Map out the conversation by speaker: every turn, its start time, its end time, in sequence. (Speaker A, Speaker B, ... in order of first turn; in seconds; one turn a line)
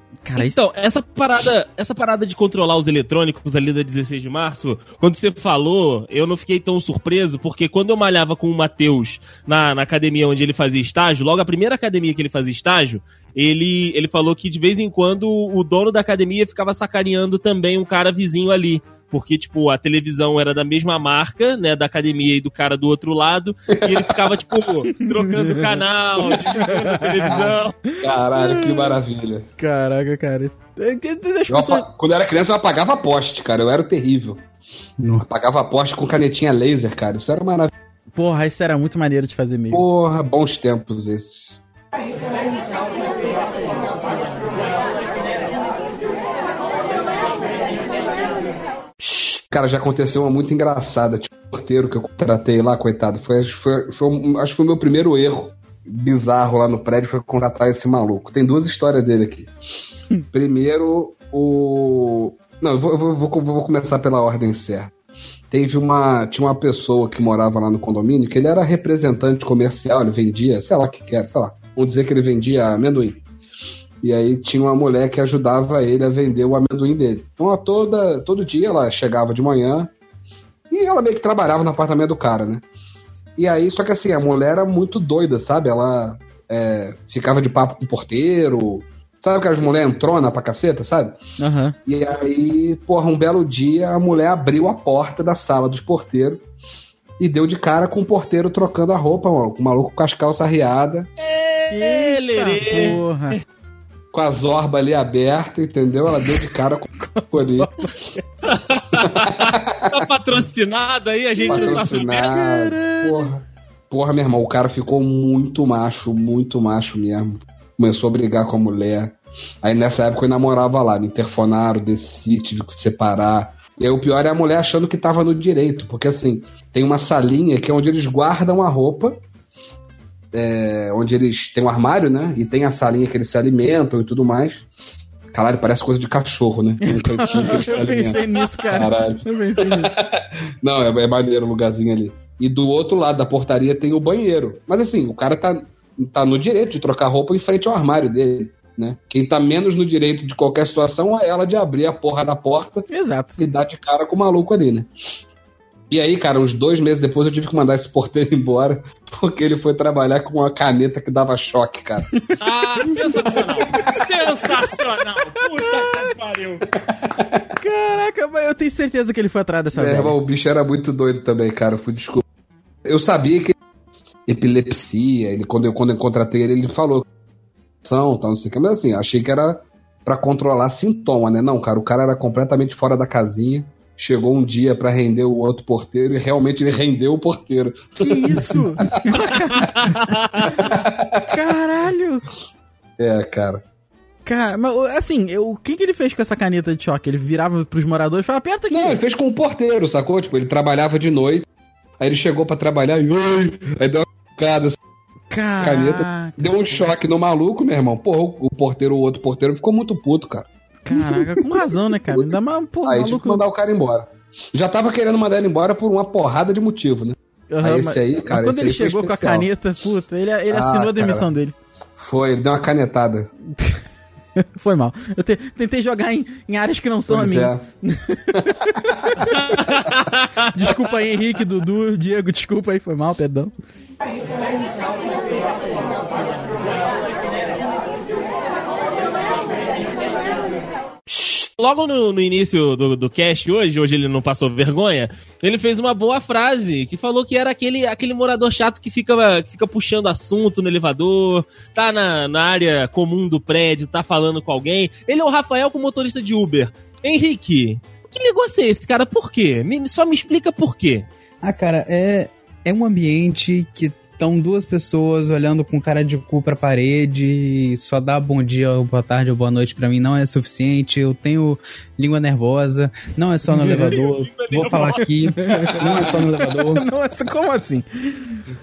Speaker A: 0.2-0.6
Speaker B: 0.4-27.7
Speaker C: 23.7-24.3
Speaker A: 24.9-25.7
Speaker C: 26.2-26.7
Speaker A: 26.4-29.0
Speaker C: 27.3-29.4
Speaker A: 29.6-31.8
Speaker C: 31.5-34.4
Speaker D: 35.0-35.4
Speaker C: 35.3-37.7
Speaker A: 38.1-39.8
Speaker C: 39.7-41.6
Speaker C: 49.5-59.5
Speaker C: 60.3-64.9
Speaker C: 65.5-73.2
Speaker C: 74.0-79.9
Speaker C: 80.7-82.6
Speaker C: 83.4-91.2
Speaker A: 91.4-91.8
Speaker C: 91.8-96.4
Speaker C: 97.2-101.1
Speaker B: 101.2-103.4
Speaker A: 101.7-103.4
Speaker C: 104.1-107.8
Speaker A: 107.0-108.2
Speaker B: 108.4-112.2
Speaker C: 109.0-110.1
Speaker C: 111.4-129.2
Speaker A: 111.5-113.3
Speaker C: 130.3-134.7
Speaker C: 135.3-152.9
Speaker A: 136.8-139.9
Speaker A: 152.9-153.4
Speaker C: 153.4-154.9
Speaker C: 155.9-162.1
Speaker B: 162.4-166.7
Speaker A: 162.9-163.3
Speaker C: 163.3-164.0
Speaker A: 165.6-166.1
Speaker C: 167.1-167.4
Speaker A: 167.6-170.2
Speaker C: 169.7-172.2
Speaker C: 172.8-173.6
Speaker C: 174.3-177.0
Speaker C: 177.8-191.3
Speaker A: 188.0-190.0
Speaker B: 189.8-190.5
Speaker A: 191.3-192.2
Speaker C: 193.0-193.6
Speaker A: 194.2-199.0
Speaker C: 198.7-201.5
Speaker C: 202.0-204.8
Speaker A: 205.3-206.9
Speaker C: 205.6-210.5
Speaker A: 210.8-213.4
Speaker D: 210.9-211.2
Speaker C: 212.1-219.5
Speaker A: 217.5-221.5
Speaker C: 220.5-221.3
Speaker C: 222.0-223.3
Speaker A: 224.4-229.6
Speaker C: 227.1-227.6
Speaker C: 228.3-229.4
Speaker B: 229.4-230.4
Speaker A: 230.5-233.5
Speaker B: 241.6-261.1
Speaker D: 261.4-276.8
Speaker B: 273.7-276.1
Speaker A: 275.4-278.4